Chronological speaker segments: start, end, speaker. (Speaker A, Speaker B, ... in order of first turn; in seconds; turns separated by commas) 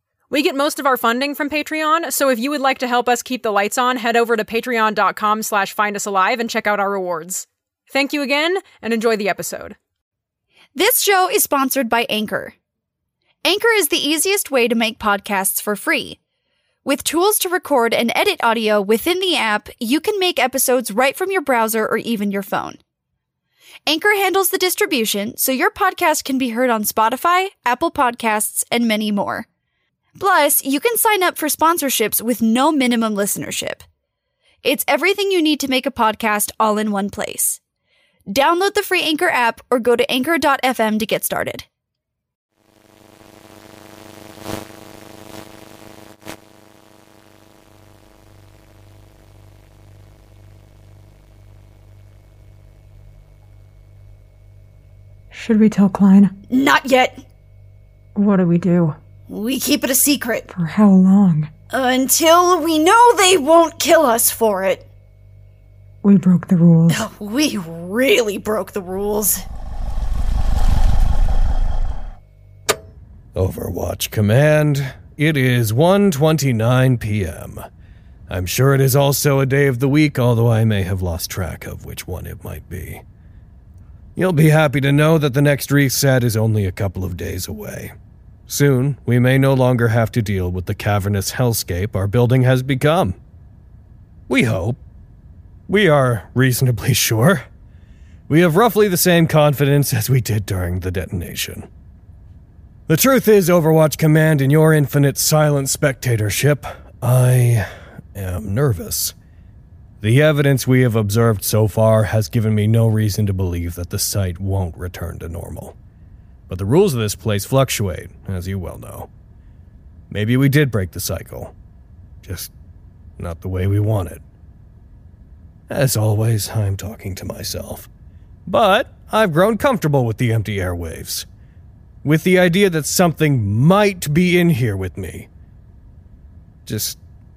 Speaker A: 0.3-9.8, Speaker B: 10.8-12.5, Speaker B: 13.4-16.2, Speaker B: 16.8-22.8, Speaker B: 23.9-29.4, Speaker B: 30.2-33.8, Speaker B: 34.6-37.6, Speaker B: 38.3-41.6, Speaker C: 55.3-56.3, Speaker B: 56.5-57.2, Speaker C: 58.1-59.0, Speaker B: 59.3-60.5, Speaker C: 60.5-61.5, Speaker B: 61.7-64.8, Speaker C: 66.0-67.0, Speaker B: 66.9-69.4, Speaker D: 73.3-77.6, Speaker D: 78.3-83.0, Speaker D: 84.2-87.9, Speaker D: 88.5-93.2, Speaker D: 94.3-94.8, Speaker D: 95.7-97.4, Speaker D: 98.3-101.7, Speaker D: 102.9-109.1, Speaker D: 110.0-115.8, Speaker D: 116.5-119.1, Speaker D: 120.1-121.5, Speaker D: 122.2-122.5, Speaker D: 123.2-124.2, Speaker D: 125.7-127.9, Speaker D: 128.5-131.2, Speaker D: 132.0-135.3, Speaker D: 136.7-137.0